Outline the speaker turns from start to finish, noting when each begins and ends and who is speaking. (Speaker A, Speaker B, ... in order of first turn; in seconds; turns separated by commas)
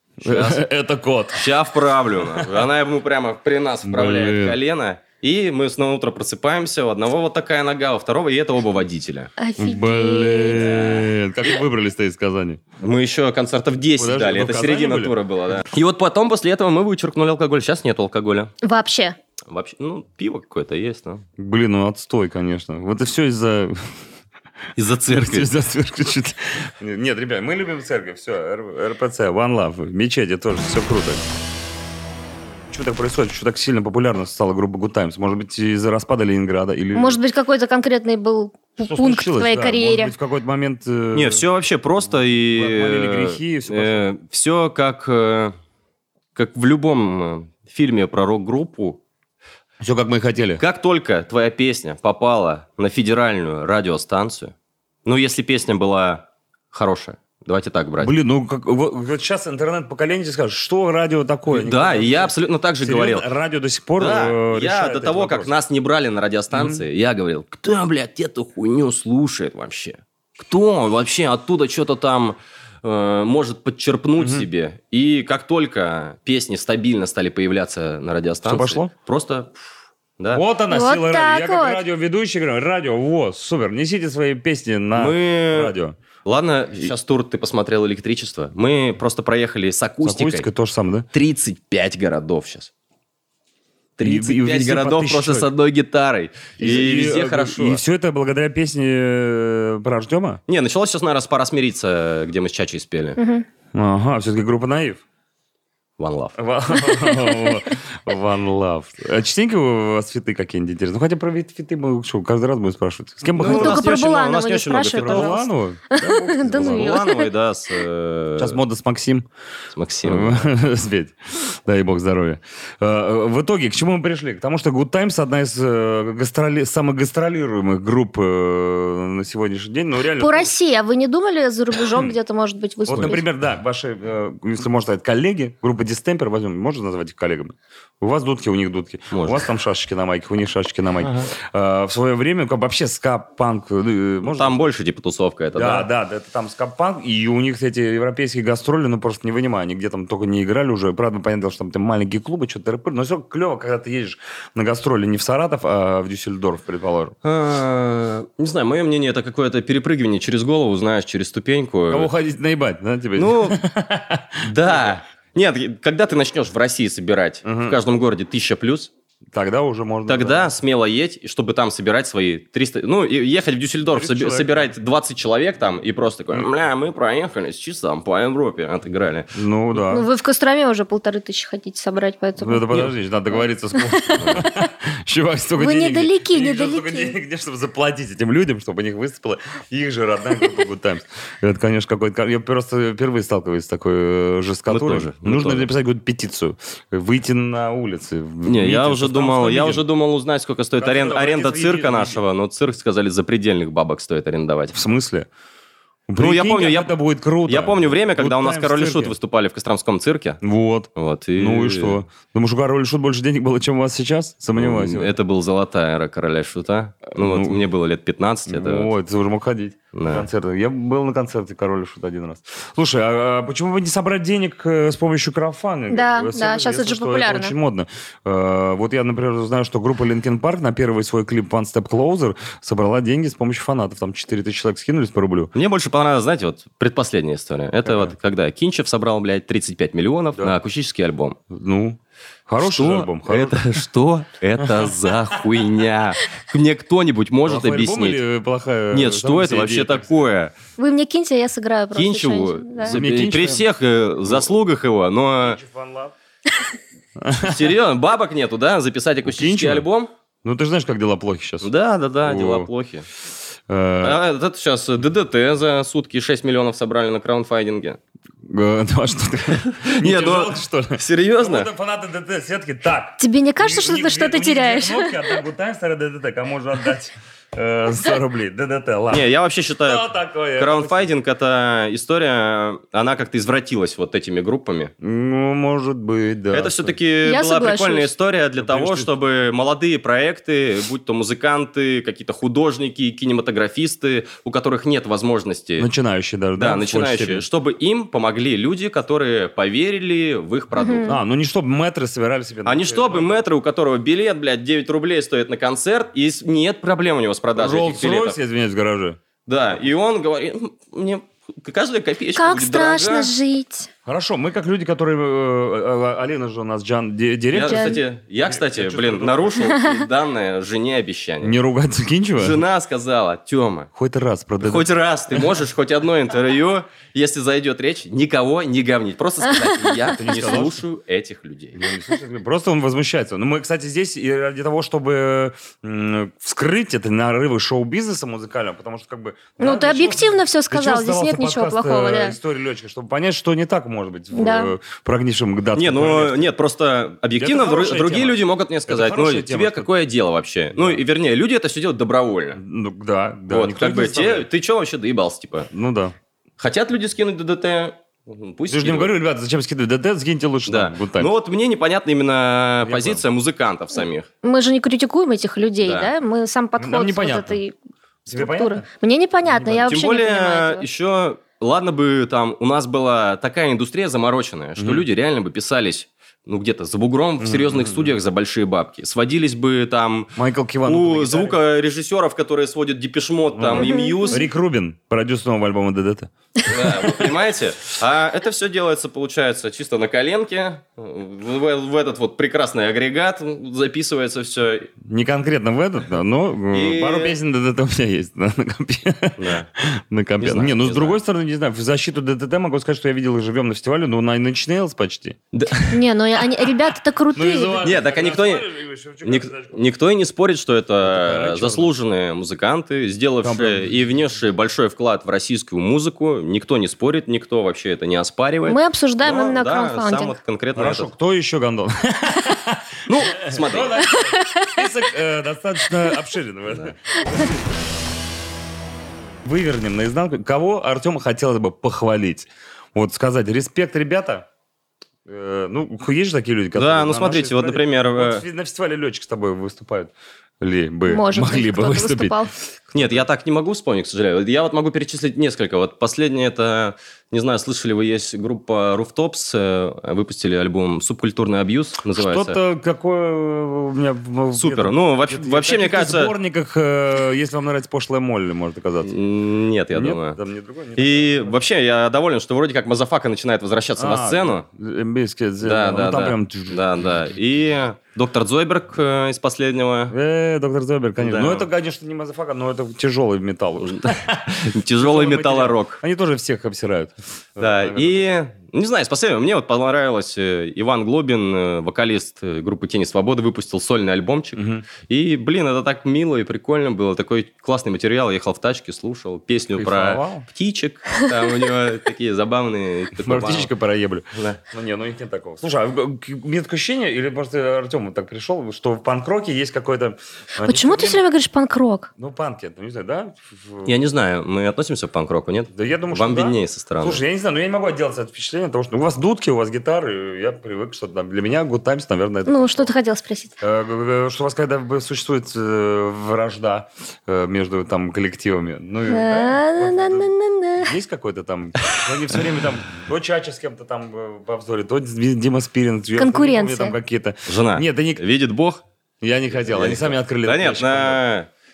Speaker A: 0.2-0.6, Speaker B: 0.2-1.6, Speaker A: 1.3-9.3, Speaker B: 2.2-2.6, Speaker B: 3.9-4.6, Speaker C: 9.4-10.9, Speaker B: 9.6-12.6, Speaker A: 10.5-11.1, Speaker A: 12.8-18.5, Speaker B: 14.0-15.2, Speaker C: 18.6-19.2, Speaker A: 19.5-21.2, Speaker B: 21.4-23.8, Speaker A: 24.8-25.5, Speaker B: 25.0-31.2, Speaker B: 32.7-37.2, Speaker C: 36.9-40.1, Speaker B: 38.8-41.4, Speaker A: 41.1-45.5, Speaker B: 42.5-44.1, Speaker A: 46.4-49.0, Speaker B: 49.8-50.6, Speaker A: 50.6-54.5, Speaker A: 55.0-58.1, Speaker B: 58.0-65.5, Speaker A: 61.5-63.3, Speaker A: 64.0-79.7, Speaker B: 66.5-66.8, Speaker B: 74.2-74.5, Speaker B: 78.4-78.9, Speaker A: 80.2-80.4, Speaker B: 80.3-86.0, Speaker C: 80.7-81.8, Speaker A: 85.0-90.5, Speaker B: 90.0-91.1, Speaker A: 91.1-92.7, Speaker A: 94.0-97.8, Speaker B: 94.0-95.5, Speaker B: 96.6-100.4, Speaker A: 100.5-103.2, Speaker C: 103.2-103.5, Speaker B: 103.8-105.0, Speaker A: 106.0-106.4, Speaker B: 106.4-113.9, Speaker C: 106.9-107.6, Speaker A: 113.4-115.4, Speaker C: 113.4-117.3, Speaker B: 115.0-117.0, Speaker A: 116.5-118.6, Speaker B: 118.4-119.3, Speaker A: 119.7-120.5, Speaker B: 120.0-130.5, Speaker C: 130.2-133.2, Speaker B: 132.9-144.7, Speaker A: 139.1-139.5, Speaker A: 141.0-141.3, Speaker A: 144.2-145.9, Speaker B: 145.6-157.2, Speaker A: 157.2-162.1, Speaker B: 161.9-165.0, Speaker A: 163.2-163.6, Speaker A: 164.4-168.9, Speaker B: 167.4-167.8, Speaker B: 169.3-170.5, Speaker A: 170.1-179.3, Speaker B: 173.9-174.7, Speaker B: 179.3-180.1, Speaker C: 179.9-182.9, Speaker B: 182.4-199.8, Speaker C: 183.8-184.2, Speaker A: 184.1-184.4, Speaker C: 185.6-187.2, Speaker A: 194.7-195.7, Speaker A: 198.5-204.7, Speaker B: 200.8-202.2, Speaker B: 204.7-205.3, Speaker B: 206.1-209.2, Speaker A: 206.2-206.9, Speaker A: 207.5-210.4, Speaker B: 210.4-215.1, Speaker A: 210.9-212.0, Speaker A: 214.6-218.9, Speaker B: 217.1-217.6, Speaker B: 218.5-235.5, Speaker A: 219.9-220.3, Speaker C: 225.9-227.5, Speaker A: 235.5-241.4, Speaker B: 237.9-238.1, Speaker B: 241.5-243.8, Speaker A: 242.6-248.2, Speaker B: 244.6-245.1, Speaker B: 247.5-250.1, Speaker A: 248.9-250.6, Speaker C: 250.8-253.0, Speaker A: 251.9-255.6, Speaker B: 252.9-253.7, Speaker B: 255.4-256.1, Speaker B: 257.2-257.6, Speaker A: 257.4-260.1, Speaker B: 259.2-259.9, Speaker B: 260.4-261.7, Speaker A: 261.6-263.1, Speaker B: 262.2-262.7, Speaker B: 263.7-264.2, Speaker A: 264.0-268.0, Speaker B: 268.5-279.3, Speaker A: 269.6-271.7, Speaker C: 273.2-275.4, Speaker A: 279.1-284.9, Speaker B: 279.8-281.1, Speaker B: 285.0-287.0, Speaker A: 286.5-295.9, Speaker C: 287.2-288.1, Speaker B: 288.6-289.1, Speaker B: 295.8-297.4, Speaker A: 296.6-301.2, Speaker C: 300.8-301.1, Speaker B: 301.1-303.4, Speaker A: 302.6-308.4, Speaker B: 307.6-309.2, Speaker A: 309.5-313.3, Speaker C: 312.4-313.9, Speaker B: 314.1-319.6, Speaker A: 317.5-321.6, Speaker C: 317.6-318.0, Speaker B: 321.4-322.6, Speaker A: 322.4-323.9, Speaker B: 323.9-324.9, Speaker A: 324.6-331.8, Speaker C: 329.5-330.1, Speaker B: 330.1-330.8, Speaker B: 331.8-346.5, Speaker C: 339.6-342.4, Speaker C: 344.3-344.7, Speaker A: 345.7-352.6, Speaker B: 347.4-349.9, Speaker B: 350.7-351.0, Speaker B: 352.6-354.5, Speaker A: 353.5-355.7, Speaker B: 355.7-356.1, Speaker A: 356.6-359.1, Speaker B: 358.7-361.3, Speaker A: 360.7-364.3, Speaker B: 362.8-363.2, Speaker C: 364.4-367.7, Speaker A: 365.8-366.1, Speaker B: 366.8-367.6, Speaker B: 368.3-368.9, Speaker C: 368.3-370.9, Speaker B: 369.4-370.0, Speaker A: 369.9-384.4, Speaker B: 374.8-375.1, Speaker B: 377.4-378.1, Speaker B: 380.4-381.6, Speaker B: 383.6-387.3, Speaker C: 383.7-384.4, Speaker A: 386.6-394.9, Speaker B: 395.1-405.9, Speaker A: 396.7-397.4, Speaker A: 399.4-399.7, Speaker A: 400.4-401.2, Speaker A: 405.5-405.9, Speaker C: 405.9-407.8, Speaker B: 407.3-409.8, Speaker A: 407.8-408.7, Speaker A: 409.2-421.1, Speaker B: 411.0-411.9, Speaker B: 413.4-414.0, Speaker C: 418.7-420.4, Speaker B: 420.8-427.8, Speaker A: 423.1-424.1, Speaker C: 424.0-424.9, Speaker A: 426.7-426.9, Speaker B: 429.4-434.5, Speaker B: 435.3-442.4, Speaker A: 436.8-438.4, Speaker C: 441.1-442.5, Speaker B: 442.9-443.2, Speaker A: 442.9-452.6, Speaker B: 452.1-459.1, Speaker A: 454.5-456.3, Speaker A: 459.0-460.4, Speaker B: 459.9-461.6, Speaker A: 461.0-464.6, Speaker B: 464.0-466.8, Speaker A: 465.6-470.1, Speaker B: 470.1-478.3, Speaker A: 471.2-471.7, Speaker A: 473.8-476.0, Speaker A: 477.6-493.7, Speaker B: 484.6-484.9, Speaker B: 489.8-490.5, Speaker B: 493.2-501.2, Speaker A: 494.3-494.6, Speaker C: 500.6-502.1, Speaker B: 502.2-503.9, Speaker A: 503.9-507.2, Speaker B: 505.7-512.9, Speaker C: 512.5-513.5, Speaker B: 513.6-528.2, Speaker C: 519.1-521.0, Speaker C: 526.2-527.0, Speaker A: 527.5-528.8, Speaker B: 529.2-531.2, Speaker A: 529.7-531.5